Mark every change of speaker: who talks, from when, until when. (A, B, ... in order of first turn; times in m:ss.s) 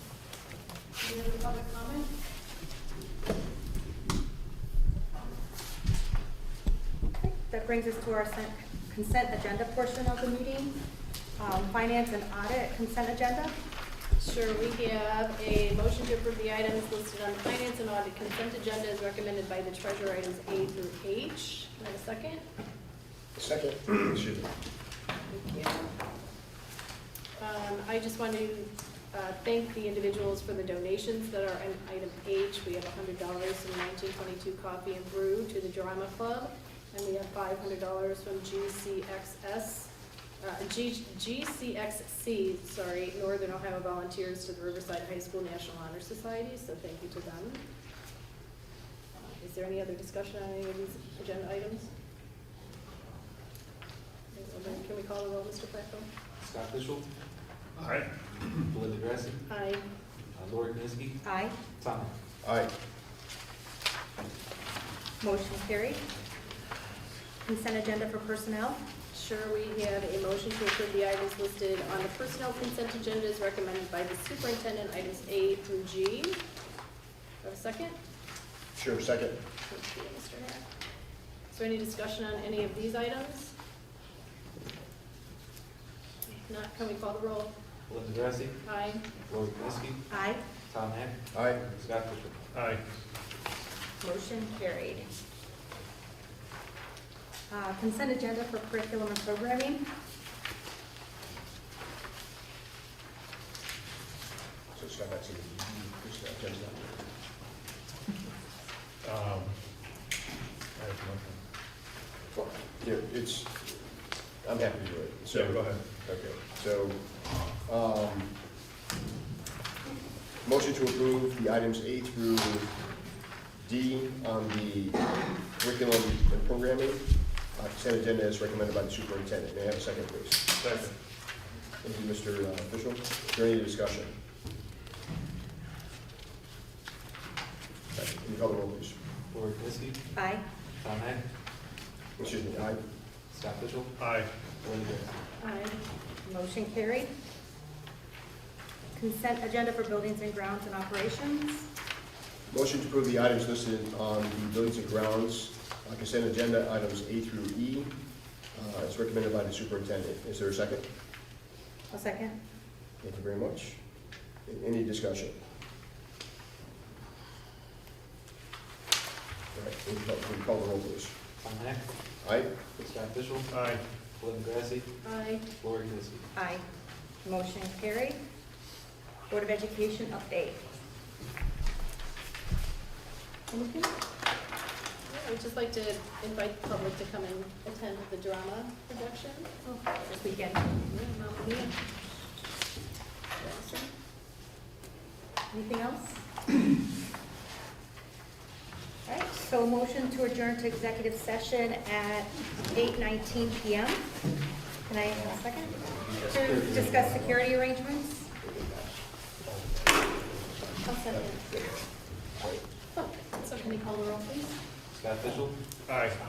0:01.0-0:02.1 A
0:07.2-0:10.7 B
0:11.4-0:13.5 B
0:14.2-0:22.4 A
0:23.4-0:24.5 C
0:25.3-0:25.9 A
0:27.4-0:47.6 A
0:49.2-0:51.9 A
0:54.3-0:56.1 A
0:56.4-0:57.1 D
0:57.8-0:58.6 E
0:58.6-0:59.4 D
0:59.5-0:59.8 A
1:00.3-1:01.2 D
1:01.2-1:01.6 B
1:01.8-1:02.1 D
1:02.4-1:02.7 C
1:05.2-1:06.0 B
1:07.4-1:08.8 B
1:09.1-1:16.4 A
1:17.4-1:18.0 A
1:18.8-1:19.4 C
1:19.7-1:20.6 A
1:21.5-1:23.5 A
1:26.3-1:27.5 A
1:27.9-1:28.6 D
1:28.6-1:29.2 A
1:29.2-1:30.0 D
1:30.1-1:30.4 B
1:30.7-1:32.4 D
1:31.3-1:31.6 C
1:32.5-1:32.8 E
1:34.0-1:35.1 B
1:37.5-1:39.8 B
1:44.7-1:47.0 C
1:49.0-1:49.5 E
1:50.8-1:51.4 E
1:52.3-1:53.9 C
1:54.4-1:57.0 C
1:55.3-1:55.8 E
1:57.6-1:58.3 C
2:00.4-2:02.7 C
2:03.6-2:05.1 C
2:05.6-2:10.5 C
2:10.6-2:10.9 E
2:11.8-2:14.1 C
2:17.9-2:19.0 C
2:19.3-2:20.0 D
2:20.1-2:20.4 B
2:20.8-2:21.2 D
2:22.2-2:22.8 C
2:23.3-2:24.0 D
2:24.0-2:24.3 E
2:24.6-2:25.2 D
2:25.4-2:25.8 A
2:26.2-2:27.1 B
2:29.0-2:31.7 B
2:32.5-2:37.9 C
2:38.5-2:40.8 C
2:41.9-2:42.4 B
2:43.0-2:43.8 C
2:44.4-2:45.3 C
2:49.5-2:51.1 C
2:51.4-2:51.8 D
2:52.2-2:52.5 C
2:52.8-2:53.6 D
2:53.5-2:53.8 E
2:54.1-2:54.9 D
2:55.0-2:55.5 A
2:55.5-2:56.3 D
2:56.3-2:56.6 B
2:57.2-2:58.2 B
2:59.3-3:00.6 B
3:03.5-3:03.9 B
3:05.1-3:09.5 A
3:09.6-3:10.8 B
3:10.8-3:11.8 A
3:13.4-3:13.9 A
3:15.5-3:16.2 B
3:19.0-3:24.0 B
3:24.8-3:28.3 B
3:25.9-3:27.5 D
3:28.4-3:28.9 C
3:29.5-3:29.8 E
3:30.8-3:31.4 A
3:31.1-3:31.8 C
3:32.4-3:32.6 C
3:32.9-3:34.6 A
3:34.9-3:35.6 D
3:35.9-3:36.2 E